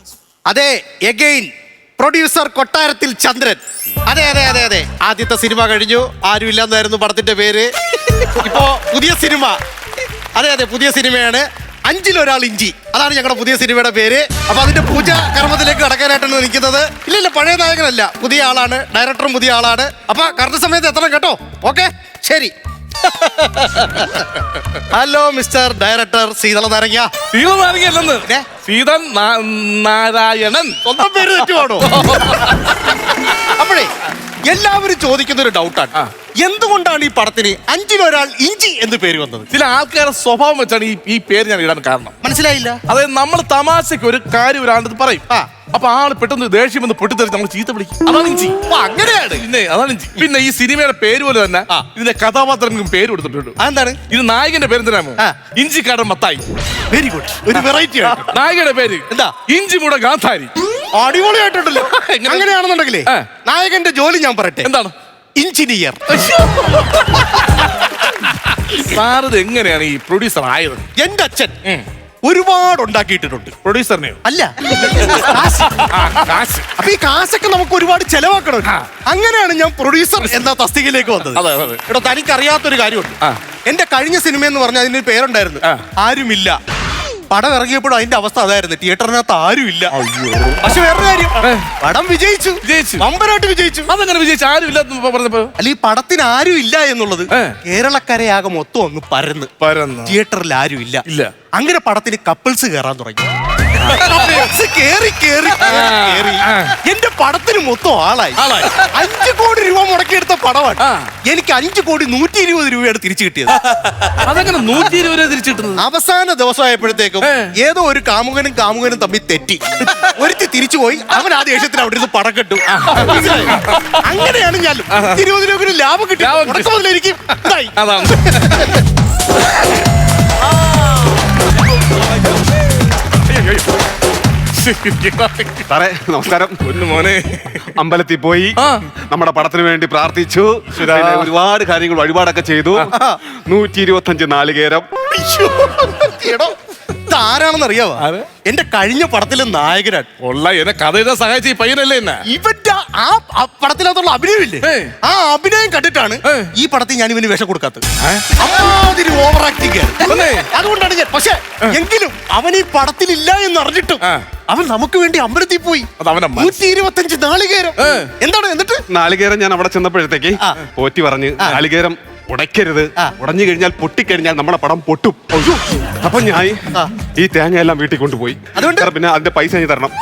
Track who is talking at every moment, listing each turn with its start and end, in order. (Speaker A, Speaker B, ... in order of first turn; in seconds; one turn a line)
Speaker A: 0.5-9.6
Speaker A: 10.3-24.2
Speaker A: 24.9-27.1
Speaker B: 27.3-30.8
Speaker A: 30.8-32.7
Speaker B: 31.7-33.3
Speaker A: 33.2-33.9
Speaker A: 34.5-39.5
Speaker B: 39.5-42.1
Speaker A: 42.2-42.8
Speaker B: 42.9-48.6
Speaker A: 48.6-49.4
Speaker B: 49.3-53.6
Speaker A: 53.6-54.0
Speaker B: 54.1-56.4
Speaker A: 56.9-58.4
Speaker B: 58.1-60.5
Speaker A: 59.1-59.3
Speaker A: 60.9-64.7
Speaker B: 61.8-62.5
Speaker B: 64.6-64.9
Speaker A: 65.4-66.0
Speaker B: 66.1-67.5
Speaker B: 68.0-70.8
Speaker A: 71.0-71.5
Speaker A: 72.2-73.5
Speaker B: 73.6-74.2
Speaker A: 74.2-75.9
Speaker B: 74.8-76.7
Speaker A: 76.8-86.5
Speaker B: 81.3-81.8
Speaker A: 87.3-89.9
Speaker B: 89.9-90.6
Speaker A: 90.6-93.9
Speaker B: 91.4-91.7
Speaker B: 92.6-93.0
Speaker B: 93.9-95.5
Speaker A: 95.6-99.5
Speaker B: 99.6-100.2
Speaker A: 100.0-103.2
Speaker B: 101.0-101.3
Speaker A: 103.8-114.1
Speaker B: 103.8-104.5
Speaker B: 105.6-106.8
Speaker B: 108.4-108.9
Speaker B: 110.8-111.1
Speaker B: 114.1-115.8
Speaker A: 115.8-128.8
Speaker B: 117.2-117.5
Speaker B: 122.7-124.0
Speaker B: 124.9-125.2
Speaker B: 126.2-126.7
Speaker B: 127.8-128.8
Speaker B: 133.2-133.7
Speaker B: 134.5-135.7
Speaker C: 135.7-136.6
Speaker B: 136.6-137.7
Speaker C: 137.7-138.6
Speaker B: 138.6-138.9
Speaker C: 139.1-144.9
Speaker A: 142.9-143.2
Speaker A: 145.1-150.1
Speaker B: 148.0-148.3
Speaker B: 150.2-152.2
Speaker A: 152.3-157.8
Speaker B: 154.6-154.9
Speaker B: 156.2-156.5
Speaker B: 158.0-158.3
Speaker A: 158.4-168.8
Speaker B: 160.0-160.5
Speaker B: 166.0-166.6
Speaker B: 167.8-168.1
Speaker C: 168.9-175.4
Speaker A: 175.3-175.6
Speaker C: 176.0-179.9
Speaker A: 178.5-178.9